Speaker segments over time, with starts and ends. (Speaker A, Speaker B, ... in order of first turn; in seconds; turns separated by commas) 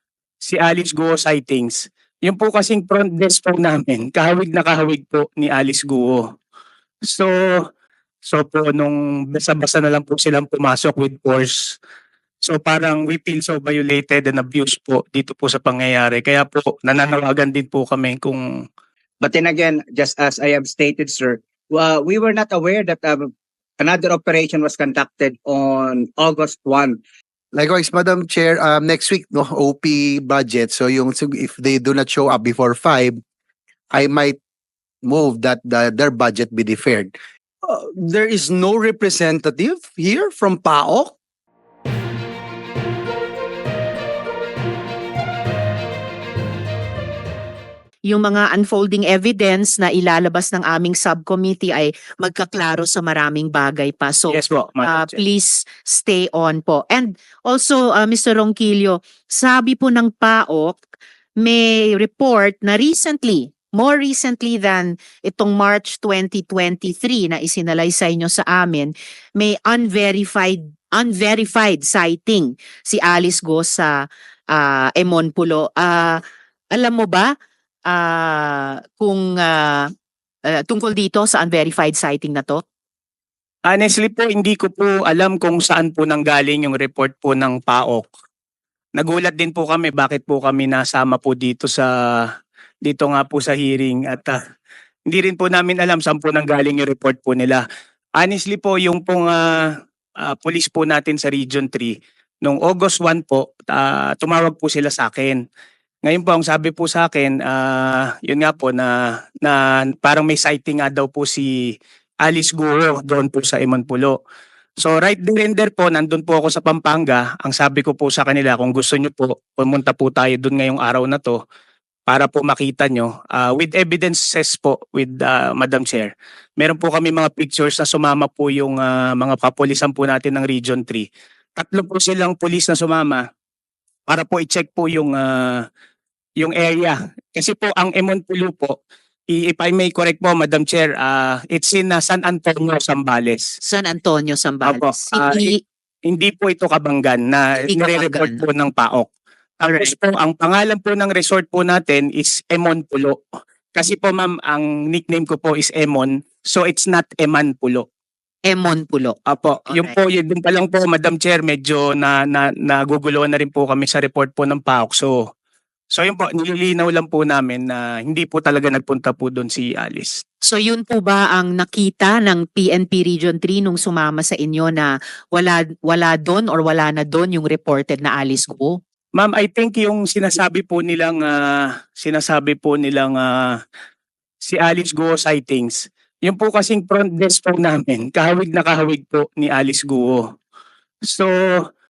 Speaker A: 0.4-6.3, Speaker A: 7.1-7.3, Speaker A: 8.3-11.8, Speaker A: 12.5-18.4, Speaker B: 19.2-27.0, Speaker C: 27.5-33.2, Speaker C: 33.9-34.4, Speaker C: 35.0-37.1, Speaker D: 37.6-41.1, Speaker E: 48.1-60.8, Speaker A: 54.3-55.2, Speaker E: 61.4-76.2, Speaker E: 76.7-77.3, Speaker E: 77.8-79.9, Speaker E: 80.5-82.6, Speaker A: 83.7-88.1, Speaker A: 89.0-91.9, Speaker A: 92.8-94.4, Speaker A: 95.1-97.6, Speaker A: 98.2-99.7, Speaker A: 100.2-105.4, Speaker A: 106.0-111.7, Speaker A: 112.2-114.2, Speaker A: 114.8-121.4, Speaker A: 122.1-131.1, Speaker A: 131.6-133.2, Speaker A: 134.1-135.6, Speaker A: 136.4-138.8, Speaker A: 139.3-143.5, Speaker E: 143.6-145.6, Speaker A: 144.6-145.5, Speaker A: 146.1-149.1, Speaker E: 147.7-148.4, Speaker E: 149.6-149.9, Speaker A: 149.8-153.2, Speaker A: 153.8-157.8, Speaker E: 158.4-159.9, Speaker A: 159.3-165.3, Speaker A: 165.9-170.2, Speaker E: 170.4-178.8, Speaker A: 179.1-183.6, Speaker A: 184.4-190.3, Speaker A: 191.1-191.6